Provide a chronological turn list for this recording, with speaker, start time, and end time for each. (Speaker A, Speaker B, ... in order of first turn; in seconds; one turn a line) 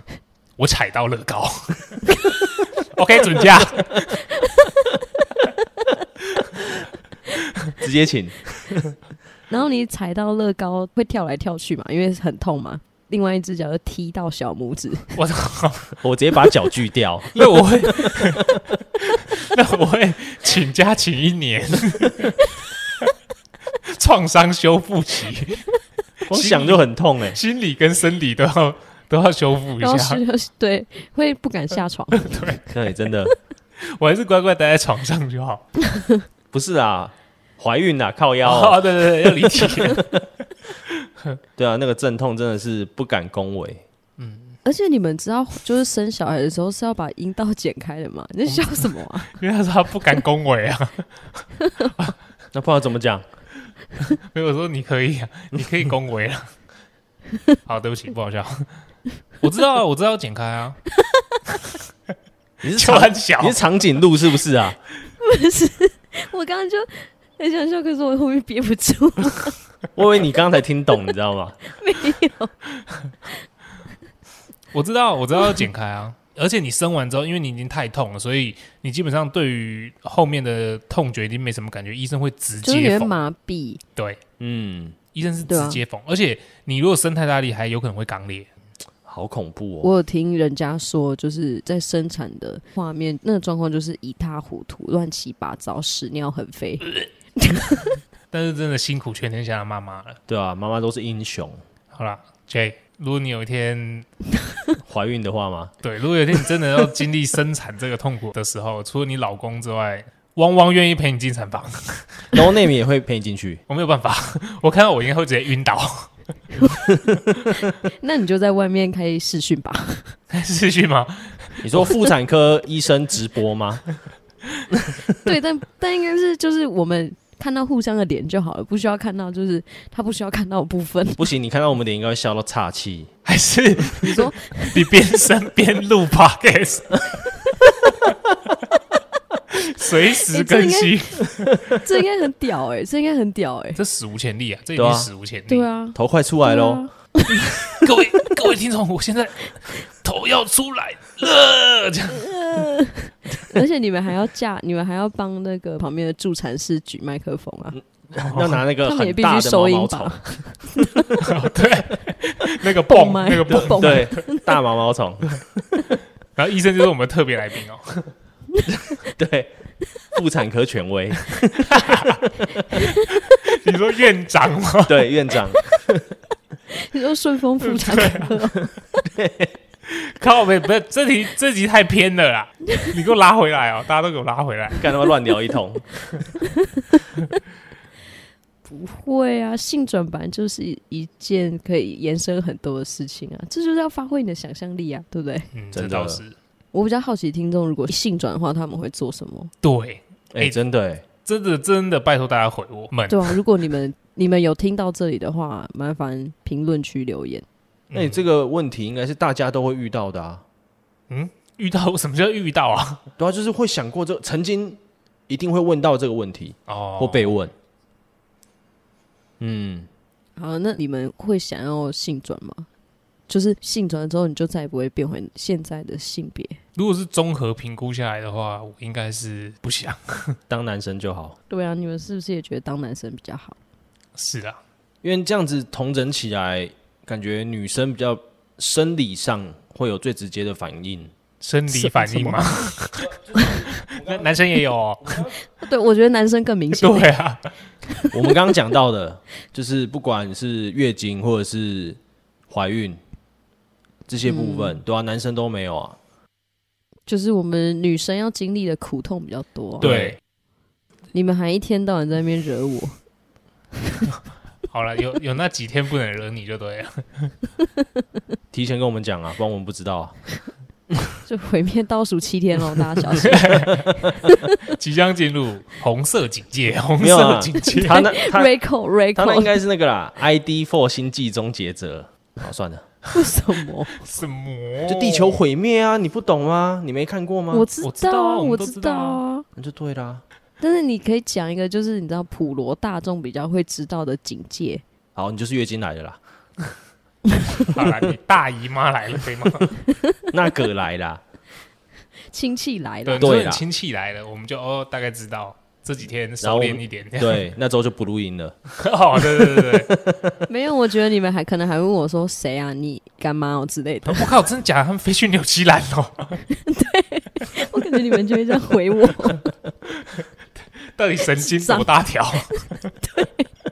Speaker A: 0.6-2.2
Speaker A: 2.7-4.2
Speaker B: 7.8-8.9
Speaker C: 9.5-15.1
Speaker A: 15.1-15.9
Speaker B: 16.0-18.6
Speaker A: 17.3-22.4
Speaker A: 23.9-25.6
Speaker B: 26.3-27.4
Speaker A: 26.3-30.2
Speaker C: 29.8-32.6
Speaker A: 32.1-32.6
Speaker B: 32.7-33.3
Speaker A: 33.8-35.6
Speaker C: 35.9-36.2
Speaker B: 36.5-40.2
Speaker A: 38.4-40.1
Speaker A: 40.9-41.4
Speaker B: 41.5-43.8
Speaker A: 44.2-44.6
Speaker C: 44.6-49.4
Speaker A: 49.2-52.1
Speaker B: 52.5-53.2
Speaker A: 54.0-56.5
Speaker A: 57.6-58.7
Speaker A: 59.4-60.8
Speaker C: 61.0-61.4
Speaker B: 62.6-64.8
Speaker A: 62.7-63.6
Speaker C: 65.2-69.6
Speaker B: 70.0-71.6
Speaker C: 71.8-72.5
Speaker A: 74.7-83.2
Speaker C: 82.6-83.8
Speaker B: 84.4-85.0
Speaker A: 85.1-88.5
Speaker C: 85.5-85.8
Speaker B: 89.0-89.9
Speaker C: 89.8-98.0
Speaker A: 98.3-100.2
Speaker B: 100.3-101.6
Speaker A: 101.9-104.1
Speaker B: 104.8-105.7
Speaker A: 105.8-112.3
Speaker B: 112.3-113.6
Speaker A: 113.7-116.1
Speaker C: 117.5-120.1
Speaker A: 120.3-121.8
Speaker B: 121.6-123.8
Speaker C: 125.2-131.3
Speaker B: 131.2-133.1
Speaker A: 133.2-138.1
Speaker C: 134.0-134.9
Speaker A: 139.5-141.6
Speaker C: 140.2-143.8
Speaker A: 143.8-145.7
Speaker B: 144.8-145.1
Speaker C: 145.5-147.6
Speaker B: 145.9-146.8
Speaker A: 147.7-152.3
Speaker C: 152.1-157.8
Speaker B: 157.7-160.3
Speaker A: 158.2-158.6
Speaker C: 158.8-161.2
Speaker A: 161.2-164.2
Speaker C: 162.8-164.6
Speaker B: 163.6-165.4
Speaker A: 166.3-168.1
Speaker B: 168.9-169.5
Speaker B: 170.1-172.4
Speaker A: 171.5-175.1
Speaker B: 174.8-176.1
Speaker C: 176.7-178.7
Speaker A: 177.6-178.3
Speaker B: 179.1-179.5
Speaker A: 179.9-184.8
Speaker B: 184.8-185.9
Speaker C: 186.4-187.0
Speaker C: 188.7-195.5
Speaker A: 195.5-196.3
Speaker B: 195.7-196.2
Speaker C: 196.7-199.5
Speaker A: 199.6-200.6
Speaker B: 200.3-201.0
Speaker A: 201.2-203.4
Speaker C: 203.1-207.4
Speaker A: 207.9-208.2
Speaker B: 207.9-210.4
Speaker A: 211.1-213.0
Speaker B: 213.2-217.5
Speaker A: 216.7-217.3
Speaker B: 219.4-219.9
Speaker C: 220.4-222.7
Speaker C: 223.3-226.6
Speaker A: 226.8-230.4
Speaker B: 230.5-231.3
Speaker C: 231.5-233.6
Speaker A: 234.2-234.6
Speaker B: 235.0-241.1
Speaker A: 241.4-245.3
Speaker C: 241.7-242.4
Speaker B: 243.1-244.3
Speaker C: 243.3-243.6
Speaker B: 245.0-245.3
Speaker C: 245.5-247.1
Speaker A: 246.8-247.5
Speaker C: 247.9-248.4
Speaker B: 248.1-253.0
Speaker B: 254.1-256.0
Speaker C: 254.2-254.8
Speaker C: 257.1-259.8
Speaker B: 259.8-260.2
Speaker A: 259.8-260.2
Speaker C: 261.1-263.0
Speaker A: 264.7-267.4
Speaker B: 268.5-270.1
Speaker C: 271.2-274.4
Speaker A: 273.2-278.1
Speaker B: 277.0-278.5
Speaker C: 277.6-279.6
Speaker B: 279.1-282.9
Speaker C: 283.1-284.0
Speaker A: 284.0-285.4
Speaker B: 284.9-287.6
Speaker C: 287.5-289.4
Speaker A: 287.8-289.2
Speaker B: 289.6-290.2
Speaker C: 290.6-294.8
Speaker B: 295.1-296.2
Speaker A: 297.6-299.7
Speaker C: 299.9-300.2
Speaker B: 300.3-301.2
Speaker C: 302.3-303.5
Speaker A: 303.1-307.4
Speaker B: 303.2-303.6
Speaker B: 306.4-308.6
Speaker A: 308.8-309.9
Speaker B: 309.1-310.3
Speaker C: 310.4-314.3
Speaker A: 314.1-316.4
Speaker C: 316.5-319.5
Speaker A: 320.0-320.2
Speaker A: 320.9-322.9
Speaker C: 321.4-323.5